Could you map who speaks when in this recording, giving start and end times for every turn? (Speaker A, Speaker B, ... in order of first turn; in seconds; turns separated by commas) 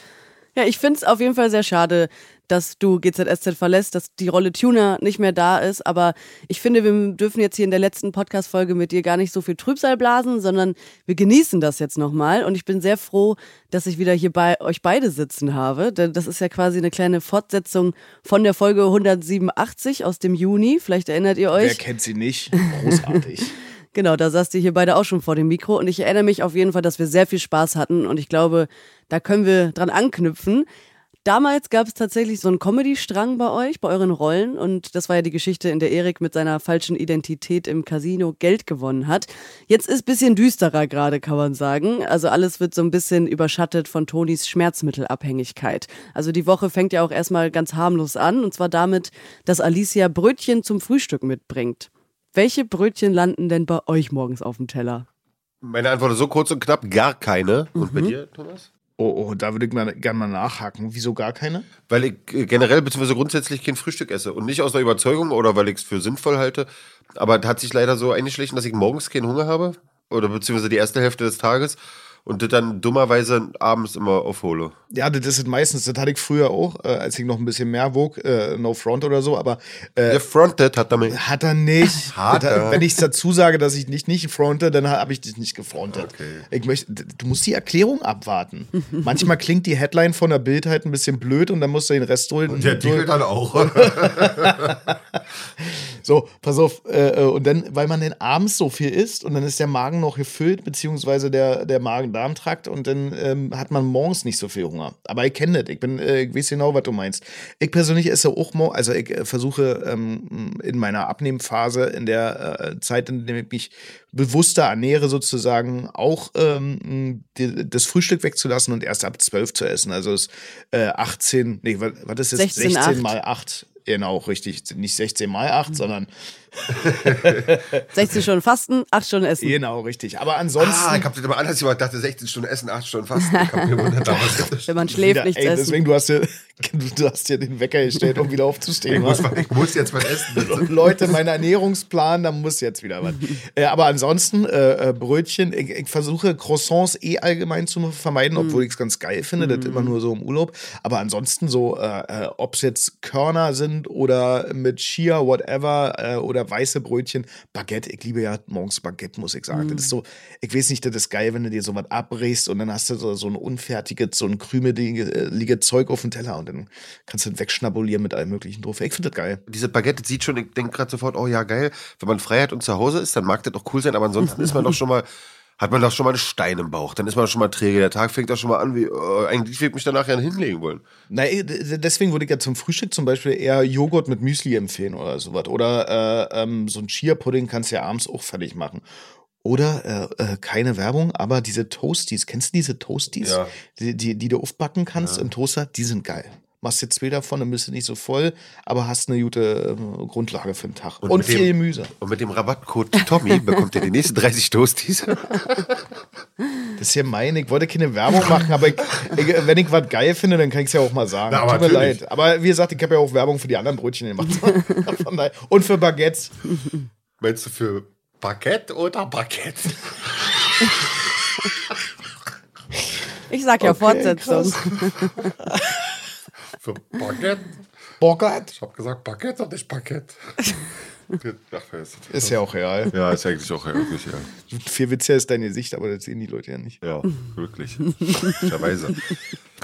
Speaker A: 0.5-21.8, Speaker B: 21.5-23.5, Speaker A: 23.9-30.6, Speaker A: 31.2-55.0, Speaker C: 55.6-58.7, Speaker A: 57.8-58.1, Speaker B: 59.0-61.7, Speaker C: 61.9-74.7, Speaker B: 74.9-80.2, Speaker C: 80.1-81.2, Speaker B: 81.1-127.8, Speaker C: 82.1-82.9, Speaker C: 85.9-86.5, Speaker C: 92.5-94.9, Speaker A: 122.3-123.1, Speaker C: 126.8-127.5, Speaker A: 127.9-129.6, Speaker B: 129.4-131.0, Speaker C: 130.6-134.7, Speaker A: 134.1-135.8, Speaker B: 134.9-139.4, Speaker C: 138.9-140.9, Speaker B: 140.3-169.4, Speaker A: 148.3-148.6, Speaker A: 149.4-149.9, Speaker A: 159.5-159.9, Speaker C: 169.5-175.1, Speaker C: 175.6-180.8, Speaker B: 181.1-188.8, Speaker B: 189.4-201.9, Speaker C: 193.2-193.5, Speaker C: 195.0-195.3, Speaker C: 201.0-205.8, Speaker B: 206.8-216.3, Speaker C: 211.3-212.0, Speaker C: 217.2-221.8, Speaker A: 223.3-225.2, Speaker B: 223.6-224.7, Speaker C: 224.7-225.3, Speaker B: 225.4-225.8, Speaker C: 226.6-227.6, Speaker B: 228.0-228.5, Speaker C: 228.5-232.3, Speaker B: 232.1-232.9, Speaker C: 232.9-234.3, Speaker B: 234.5-236.8, Speaker C: 236.8-239.0